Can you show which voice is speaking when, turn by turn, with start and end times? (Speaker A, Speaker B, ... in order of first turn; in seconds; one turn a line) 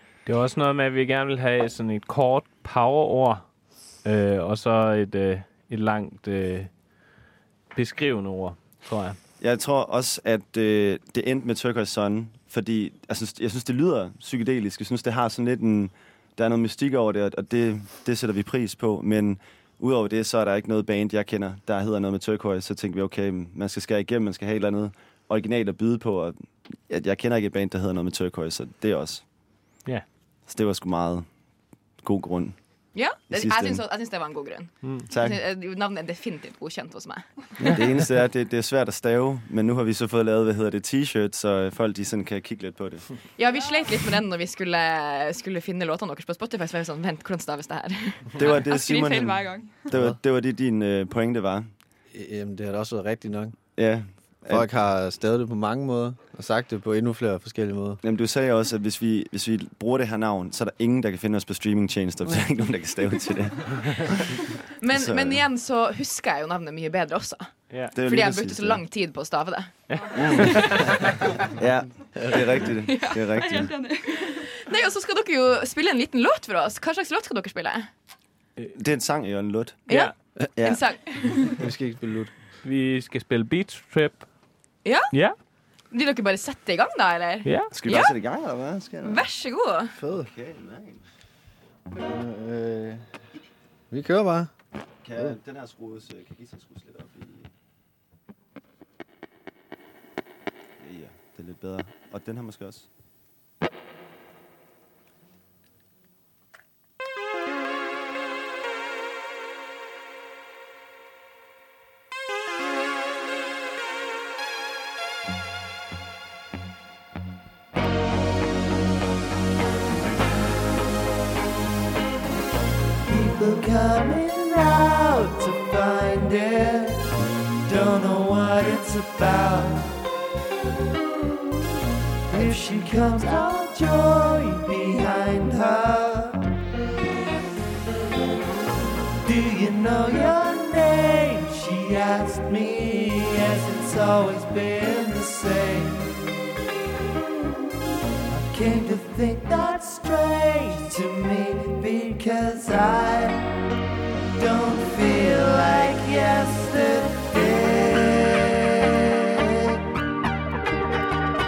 Speaker A: 0.3-3.5
Speaker A: 4.0-6.7
Speaker A: 7.7-9.2
Speaker B: 9.4-29.2
Speaker B: 30.5-31.3
Speaker B: 32.0-32.6
Speaker C: 33.0-37.7
Speaker B: 33.3-33.8
Speaker A: 34.8-35.1
Speaker B: 35.1-35.4
Speaker B: 37.6-43.1
Speaker C: 43.4-48.3
Speaker B: 48.4-51.7
Speaker D: 48.4-49.9
Speaker E: 52.1-53.6
Speaker B: 53.8-54.7
Speaker E: 54.5-58.0
Speaker B: 58.0-65.4
Speaker C: 64.8-70.8
Speaker B: 67.9-68.8
Speaker A: 69.9-71.0
Speaker B: 70.2-73.8
Speaker D: 72.9-74.6
Speaker C: 74.1-77.9
Speaker B: 78.8-79.8
Speaker A: 79.9-80.1
Speaker C: 79.9-81.6
Speaker B: 80.6-80.8
Speaker E: 81.5-82.3
Speaker A: 82.6-84.3
Speaker C: 84.8-85.1
Speaker C: 85.9-88.2
Speaker A: 87.5-87.7
Speaker B: 87.7-89.3
Speaker C: 89.0-89.9
Speaker E: 90.0-90.3
Speaker B: 90.1-91.0
Speaker E: 92.0-93.1
Speaker E: 93.9-94.5
Speaker B: 95.0-97.5
Speaker B: 100.8-102.9
Speaker F: 123.1-127.1
Speaker F: 127.7-130.0
Speaker F: 132.3-136.6
Speaker F: 139.2-146.2
Speaker F: 148.2-153.5
Speaker F: 154.4-159.8